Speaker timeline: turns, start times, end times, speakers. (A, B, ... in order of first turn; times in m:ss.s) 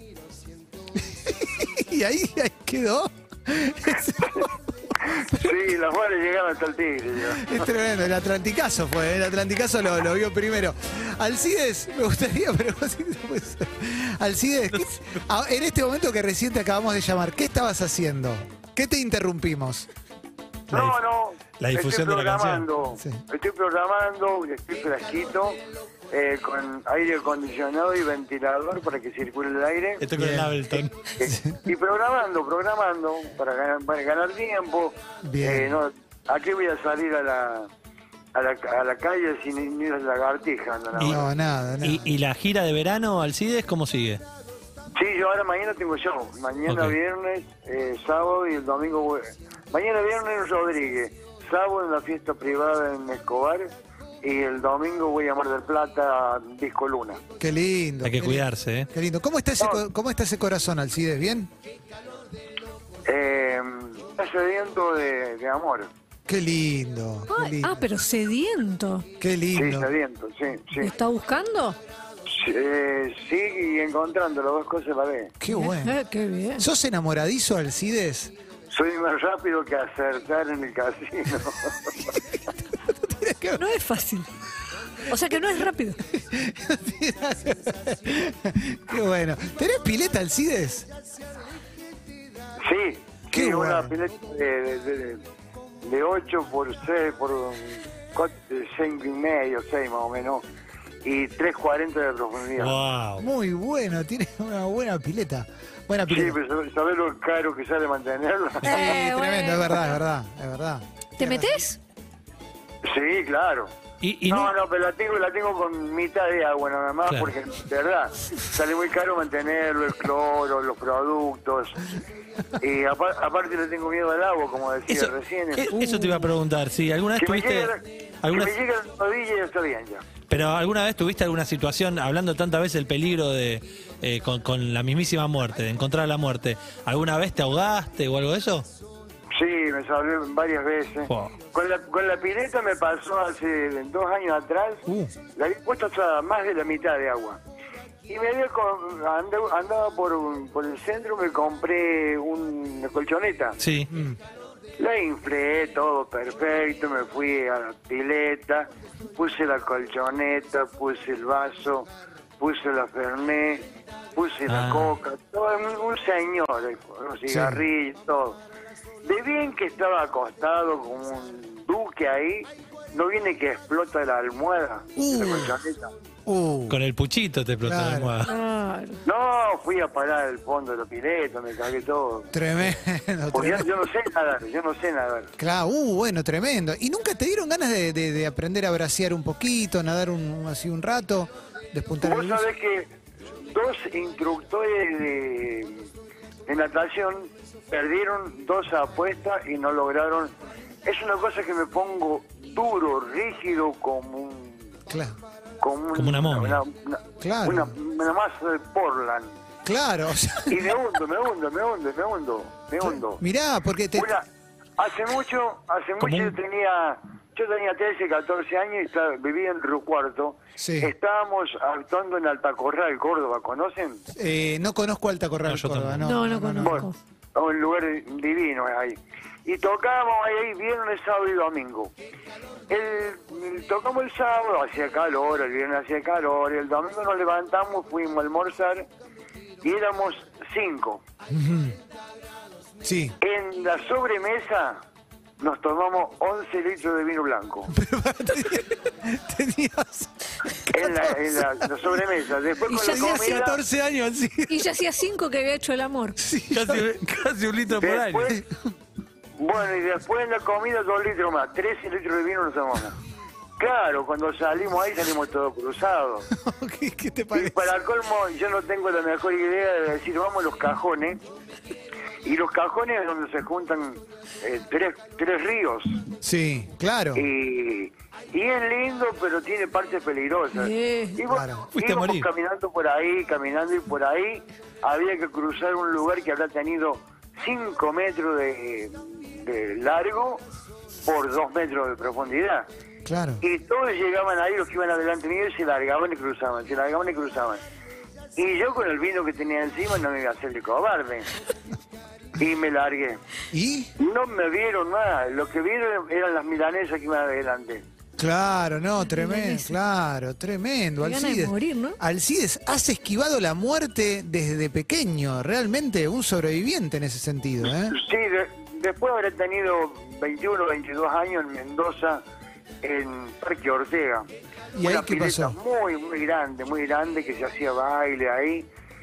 0:01.0-0:05.5 A
0:05.1-0:07.6 B
0:07.3-0:19.9 A
0:20.7-0:21.0 C
0:20.7-0:30.0 B
0:21.6-0:22.7 C
0:30.0-0:30.9 C
0:30.2-0:30.6 A
0:31.2-0:37.7 B
0:31.2-0:31.6 A
0:35.2-0:35.8 A
0:38.3-0:41.3 B
0:40.9-0:41.2 C
0:41.0-0:42.1 A
0:41.8-0:44.2 C
0:44.9-0:53.7 B
0:46.7-0:46.9 C
0:54.2-0:57.2 B
0:57.4-1:01.5 A
0:58.0-0:58.9 C
1:03.0-1:05.9 B
1:06.3-1:07.8 A
1:07.3-1:09.1 D
1:09.2-1:09.9 A
1:09.5-1:10.9 B
1:10.8-1:11.8 D
1:12.3-1:15.3 B
1:15.4-1:15.9 A
1:15.5-1:16.6 D
1:16.6-1:18.3 A
1:18.7-1:21.9 B
1:22.8-1:23.6 A
1:23.6-1:24.3 D
1:25.1-1:26.0 D
1:26.1-1:30.9 A
1:32.6-1:35.2 B
1:33.3-1:33.9 A
1:35.8-1:40.4 B
1:41.0-1:42.8 B
1:42.6-1:43.3 C
1:43.2-1:46.4 A
1:46.1-1:49.0 B
1:48.6-1:51.6 A
1:48.6-1:50.0 D
1:51.2-1:51.8 D
1:52.8-1:53.7 B
1:54.0-1:54.6 C
1:54.3-2:01.8 B
2:02.6-2:05.7 B
2:04.9-2:08.5 C
2:07.2-2:10.0 B
2:10.3-2:18.7 C
2:19.3-2:27.4 B
2:21.1-2:21.3 C
2:24.9-2:25.1 A
2:28.1-2:33.6 B
2:33.6-2:33.9 C
2:33.9-2:34.2 A
2:34.8-2:48.4 B
2:44.5-2:45.0 C
2:47.3-2:47.6 A
2:49.0-2:55.9 B
2:55.0-2:55.6 A
2:56.2-2:56.8 A
2:56.7-2:58.3 C
2:57.6-2:58.1 A
2:58.2-2:59.0 D
2:59.0-3:02.3 B
3:02.3-3:03.9 A
3:03.3-3:05.3 B
3:05.4-3:12.5 A
3:12.0-3:15.8 B
3:16.5-3:20.3 B
3:20.8-3:24.7 B
3:24.9-3:25.1 A
3:25.6-3:29.4 B
3:25.9-3:26.6 C
3:27.2-3:27.8 A
3:29.6-3:30.6 A
3:30.5-3:33.2 B
3:32.8-3:34.1 A
3:33.9-3:34.2 B
3:34.8-3:44.0 B
3:36.0-3:36.4 C
3:40.6-3:40.9 A
3:44.1-3:46.9 A
3:45.4-3:46.2 C
3:46.0-3:46.9 D
3:46.6-3:51.9 B
3:52.7-3:58.9 B
3:59.6-4:01.0 B
4:01.3-4:01.8 A
4:02.8-4:03.1 A
4:03.2-4:04.8 B
4:05.4-4:07.7 B
4:07.7-4:10.1 A
4:10.6-4:11.7 A
4:10.7-4:13.6 B
4:12.6-4:13.5 D
4:12.8-4:14.6 A
4:14.5-4:16.2 D
4:16.2-4:16.9 A
4:16.5-4:18.3 C
4:17.7-4:18.4 B
4:19.4-4:23.0 B
4:23.6-4:26.3 B
4:26.3-4:27.7 A
4:27.3-4:31.2 B
4:32.2-4:36.0 B
4:36.2-4:37.2 A
4:37.1-4:50.4 B
4:40.6-4:41.2 D
4:41.3-4:41.7 A
4:41.7-4:42.3 C
4:51.0-4:52.7 B
4:53.0-4:53.4 A
4:53.4-4:57.6 B
4:58.4-5:01.3 B
5:02.4-5:03.2 B
5:03.5-5:03.9 A
5:04.0-5:07.8 B
5:08.2-5:18.0 A
5:09.0-5:09.7 D
5:11.0-5:12.0 D
5:17.6-5:22.2 B
5:22.8-5:24.3 B
5:24.7-5:25.6 A
5:24.8-5:28.7 B